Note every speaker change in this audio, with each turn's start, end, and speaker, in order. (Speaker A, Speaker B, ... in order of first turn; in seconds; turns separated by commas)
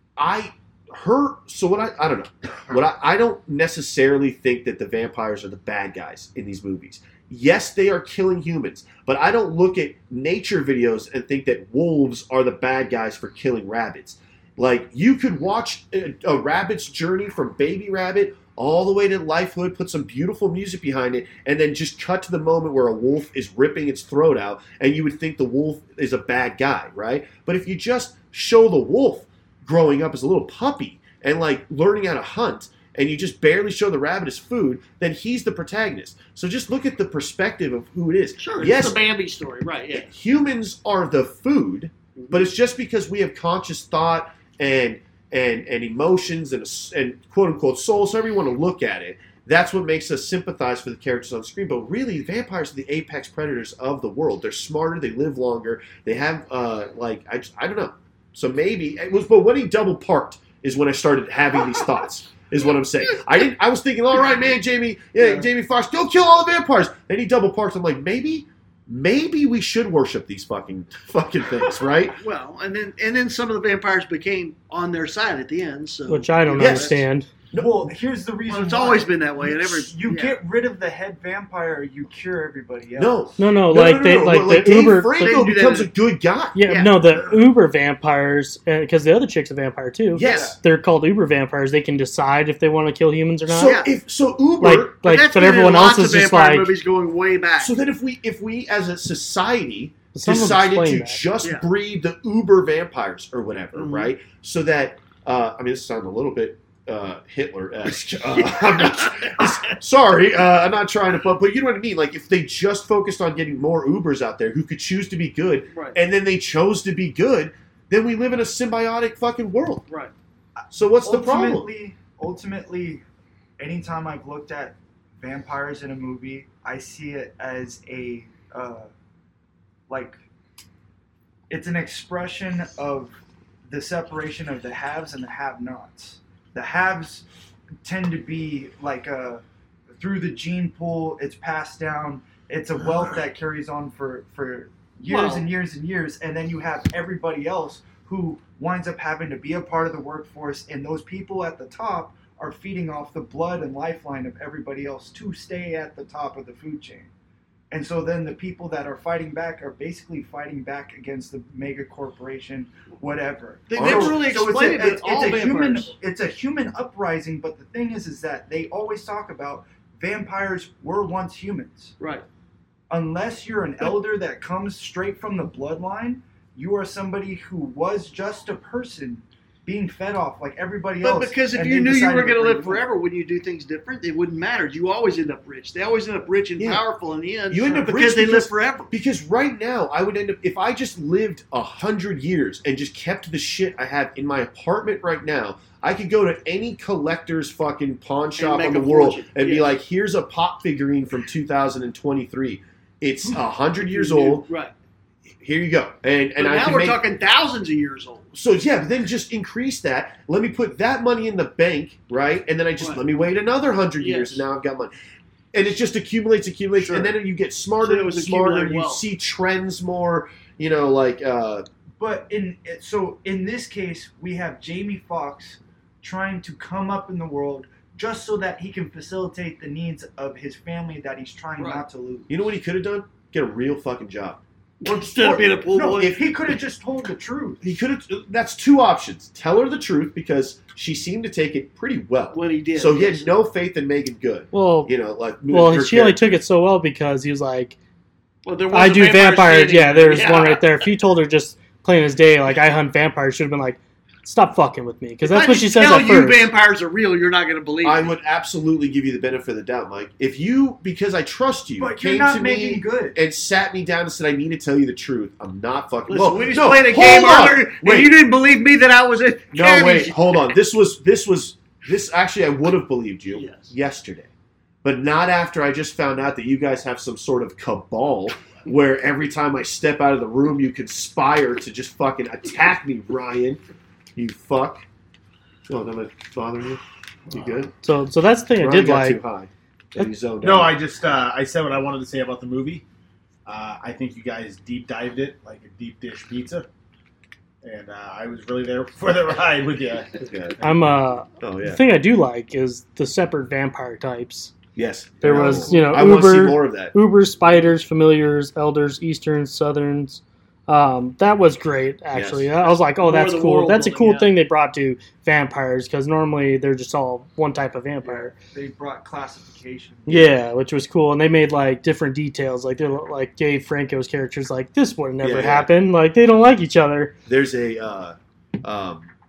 Speaker A: 0.2-39.0, Speaker B: 38.4-40.1, Speaker A: 39.9-72.2, Speaker B: 42.1-42.5, Speaker B: 72.1-77.0, Speaker C: 76.1-77.3, Speaker A: 76.5-77.0, Speaker A: 77.5-77.9, Speaker D: 77.5-83.2, Speaker B: 78.5-80.4, Speaker A: 83.0-86.6, Speaker C: 83.4-85.4, Speaker B: 85.1-85.9, Speaker C: 86.5-93.8, Speaker B: 86.6-87.3, Speaker A: 90.1-90.6, Speaker B: 90.2-90.5, Speaker D: 90.2-90.5, Speaker A: 93.5-95.0, Speaker B: 93.6-93.9, Speaker C: 94.6-96.7, Speaker B: 95.0-97.7, Speaker A: 97.6-119.8, Speaker C: 100.1-101.2, Speaker B: 101.4-101.7, Speaker B: 103.7-104.1, Speaker B: 108.3-109.7, Speaker B: 115.7-116.0, Speaker D: 120.6-123.0, Speaker A: 120.7-121.7, Speaker D: 123.6-128.9, Speaker D: 129.9-130.2, Speaker D: 131.5-137.2, Speaker D: 137.8-139.4, Speaker D: 139.9-157.1, Speaker B: 145.1-145.5, Speaker D: 157.7-171.9, Speaker B: 163.7-165.9, Speaker A: 163.7-164.2, Speaker B: 172.0-172.2, Speaker D: 172.9-182.9, Speaker B: 181.0-188.9, Speaker A: 186.6-186.8, Speaker A: 187.5-204.5, Speaker B: 198.4-199.7, Speaker B: 203.8-204.7, Speaker A: 205.4-207.0, Speaker B: 206.4-208.3, Speaker A: 208.3-214.9, Speaker B: 214.0-214.4, Speaker A: 215.5-221.7, Speaker B: 216.8-217.1, Speaker B: 217.8-219.0, Speaker D: 222.0-232.3, Speaker B: 231.6-231.8, Speaker A: 232.3-234.4, Speaker B: 234.8-236.2, Speaker D: 235.0-237.7, Speaker A: 237.6-246.2, Speaker B: 242.3-243.3, Speaker C: 244.5-244.9, Speaker C: 245.5-247.8, Speaker B: 248.4-250.9, Speaker C: 248.7-256.5, Speaker B: 255.2-258.1, Speaker A: 257.8-268.1, Speaker D: 261.8-263.2, Speaker B: 266.1-270.5, Speaker A: 269.5-274.3, Speaker B: 273.3-273.7, Speaker A: 274.8-283.6, Speaker A: 284.1-284.8, Speaker A: 285.7-287.7, Speaker C: 287.8-289.2, Speaker A: 288.6-290.7, Speaker E: 290.4-292.8, Speaker E: 293.4-296.6, Speaker E: 297.6-300.7, Speaker A: 300.2-300.6, Speaker C: 300.6-304.5, Speaker A: 301.4-301.8, Speaker A: 304.7-306.9, Speaker C: 305.2-318.3, Speaker B: 305.4-305.7, Speaker A: 312.1-312.5, Speaker B: 312.7-314.4, Speaker D: 318.0-320.4, Speaker C: 320.1-327.1, Speaker A: 325.2-325.7, Speaker A: 327.3-329.1